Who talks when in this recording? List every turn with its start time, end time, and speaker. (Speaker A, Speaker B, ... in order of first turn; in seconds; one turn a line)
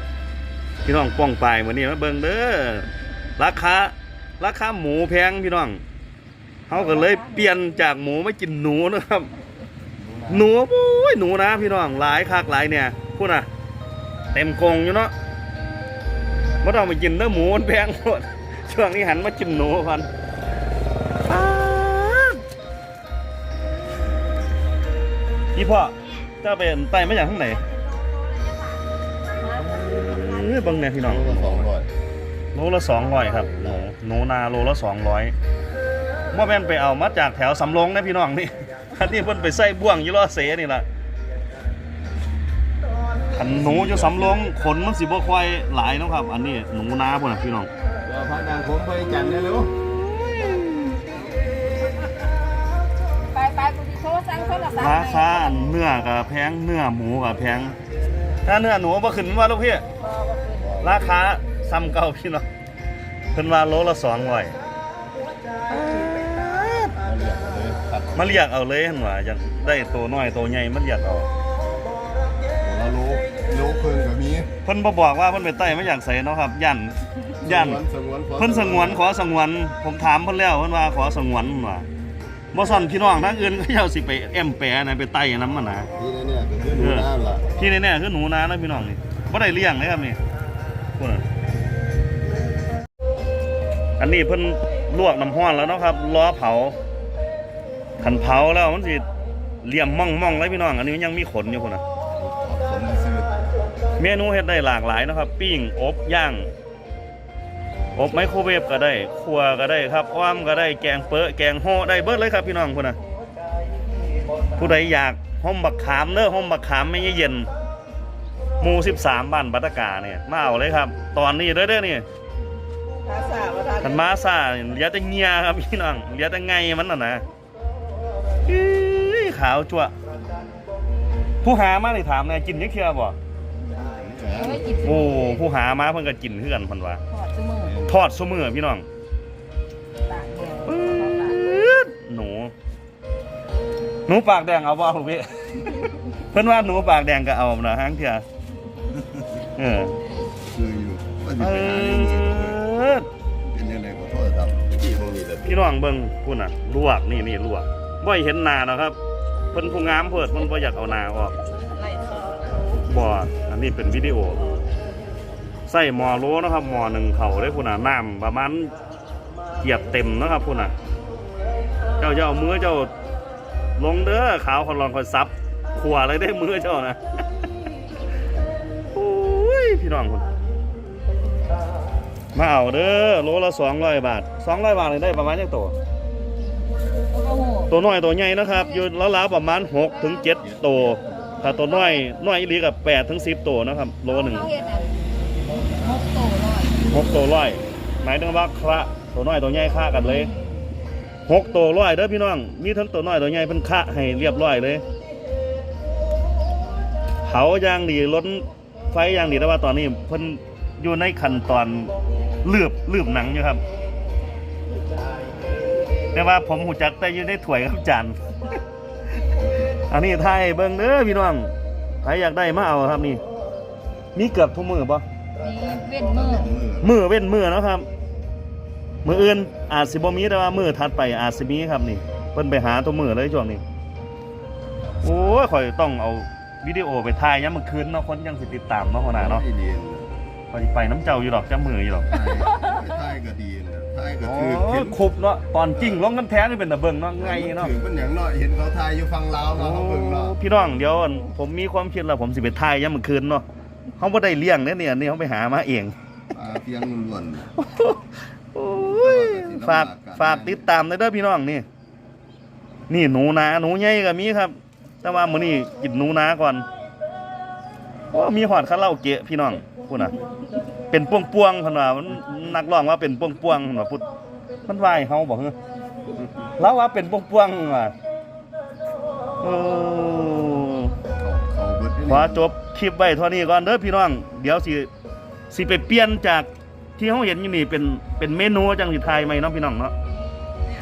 Speaker A: 0.8-5.8
Speaker A: 6.7-9.3
Speaker B: 6.7-7.6
Speaker C: 10.0-10.5
Speaker A: 10.3-13.5
Speaker A: 14.3-15.1
Speaker A: 16.6-20.1
Speaker A: 21.2-22.4
Speaker A: 25.5-27.6
Speaker B: 29.4-29.9
Speaker A: 29.5-31.7
Speaker C: 31.0-31.9
Speaker A: 32.5-35.3
Speaker C: 33.5-33.8
Speaker A: 36.3-40.9
Speaker A: 43.3-47.7
Speaker C: 43.4-44.4
Speaker C: 48.0-49.7
Speaker A: 49.8-51.1
Speaker B: 53.3-55.7
Speaker A: 54.8-57.7
Speaker A: 58.5-59.8
Speaker C: 60.5-61.1
Speaker A: 60.8-62.5
Speaker A: 63.3-64.6
Speaker A: 65.7-67.0
Speaker C: 67.0-68.5
Speaker A: 68.1-71.3
Speaker C: 72.6-74.5
Speaker A: 74.6-77.8
Speaker C: 77.4-79.0
Speaker A: 78.4-81.9
Speaker A: 82.5-85.9
Speaker C: 86.0-87.5
Speaker A: 86.8-90.2
Speaker A: 91.0-91.2
Speaker A: 94.0-96.8
Speaker A: 98.0-99.1
Speaker A: 99.6-101.8
Speaker C: 102.1-103.4
Speaker A: 104.0-106.5
Speaker A: 108.0-113.0
Speaker A: 114.6-117.5
Speaker A: 118.6-122.0
Speaker B: 123.1-123.7
Speaker A: 123.8-127.2
Speaker A: 128.4-129.9
Speaker A: 131.4-133.2
Speaker C: 133.8-134.7
Speaker B: 134.3-135.4
Speaker A: 134.8-137.0
Speaker B: 137.1-137.8
Speaker C: 137.6-137.9
Speaker A: 137.8-138.8
Speaker B: 140.1-141.4
Speaker A: 140.6-142.5
Speaker A: 144.1-148.2
Speaker A: 149.4-149.9
Speaker C: 150.5-152.6
Speaker A: 151.4-153.1
Speaker C: 153.5-155.6
Speaker A: 155.4-158.9
Speaker A: 159.5-161.3
Speaker A: 162.8-164.4
Speaker A: 165.7-168.7
Speaker A: 169.6-170.7
Speaker A: 172.0-172.9
Speaker A: 173.8-177.0
Speaker A: 178.9-180.2
Speaker A: 182.3-185.8
Speaker B: 187.1-187.7
Speaker A: 187.7-194.5
Speaker B: 188.5-188.9
Speaker B: 190.0-190.4
Speaker C: 190.4-191.5
Speaker B: 191.6-192.0
Speaker B: 194.1-194.9
Speaker B: 195.8-196.8
Speaker A: 196.8-200.3
Speaker B: 200.0-200.7
Speaker A: 201.2-204.8
Speaker A: 207.2-211.9
Speaker A: 212.4-213.6
Speaker A: 216.1-218.2
Speaker C: 219.4-219.7
Speaker A: 219.9-221.5
Speaker A: 222.0-223.2
Speaker A: 224.1-225.0
Speaker B: 225.4-226.5
Speaker C: 225.8-226.9
Speaker A: 226.8-227.9
Speaker A: 229.0-233.6
Speaker A: 235.0-239.4
Speaker C: 239.1-240.1
Speaker A: 240.5-242.2
Speaker C: 242.0-245.1
Speaker A: 244.2-247.7
Speaker C: 245.8-246.0
Speaker C: 247.2-250.4
Speaker A: 249.5-253.4
Speaker A: 254.0-255.9
Speaker C: 256.3-257.5
Speaker A: 257.6-261.6
Speaker C: 258.7-260.6
Speaker A: 262.9-266.6
Speaker A: 268.1-270.1
Speaker A: 270.9-274.0
Speaker A: 274.6-275.6
Speaker A: 276.6-277.9
Speaker A: 279.4-280.9
Speaker C: 281.1-282.5
Speaker A: 282.1-284.9
Speaker A: 285.5-289.9